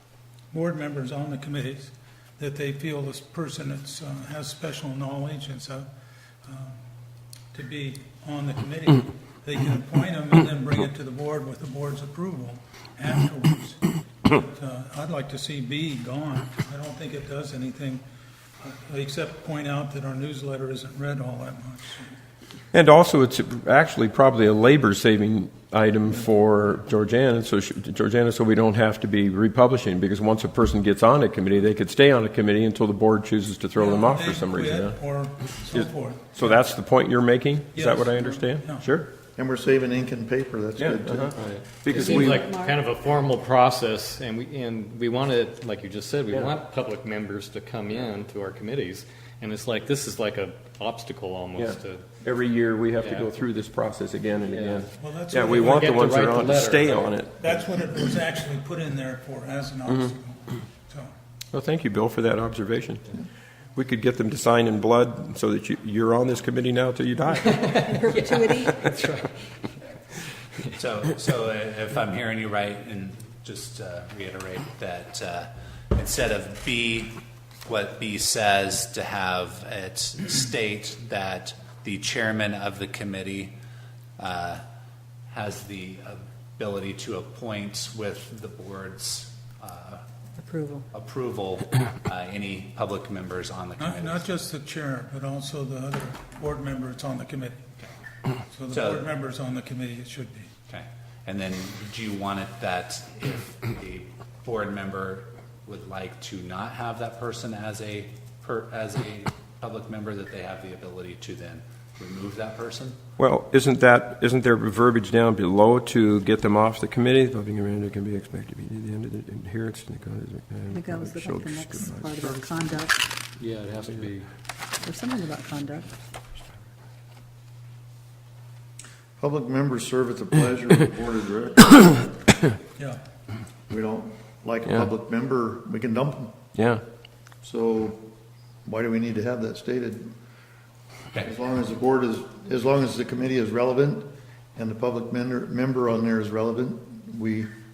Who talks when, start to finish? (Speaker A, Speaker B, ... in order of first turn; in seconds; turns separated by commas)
Speaker A: 0.5-5.9, Speaker A: 6.4-6.8, Speaker A: 7.5-18.0, Speaker A: 18.6-22.1, Speaker B: 22.7-35.0, Speaker A: 33.8-36.5, Speaker B: 35.7-39.1, Speaker A: 37.7-38.8, Speaker C: 39.4-41.3, Speaker B: 40.8-42.5, Speaker D: 41.4-52.1, Speaker E: 41.9-42.8, Speaker B: 51.6-57.3, Speaker D: 53.0-53.3, Speaker D: 54.5-54.9, Speaker A: 55.0-56.1, Speaker D: 55.5-57.1, Speaker A: 57.4-61.1, Speaker B: 61.5-63.2, Speaker B: 63.8-67.9, Speaker D: 67.5-69.5, Speaker E: 67.8-68.8, Speaker F: 70.8-77.1, Speaker F: 77.7-83.5, Speaker F: 84.2-84.6, Speaker F: 85.3-90.0, Speaker E: 90.4-90.8, Speaker F: 90.9-94.2, Speaker A: 93.8-97.7, Speaker A: 98.5-100.5, Speaker F: 98.7-99.0, Speaker F: 100.7-113.0, Speaker B: 113.2-122.2, Speaker E: 120.7-123.0, Speaker D: 123.4-124.3, Speaker E: 124.8-125.9, Speaker C: 129.2-132.1, Speaker C: 133.7-136.4, Speaker B: 136.5-136.8, Speaker C: 137.4-138.1, Speaker C: 138.6-140.1, Speaker C: 141.2-147.5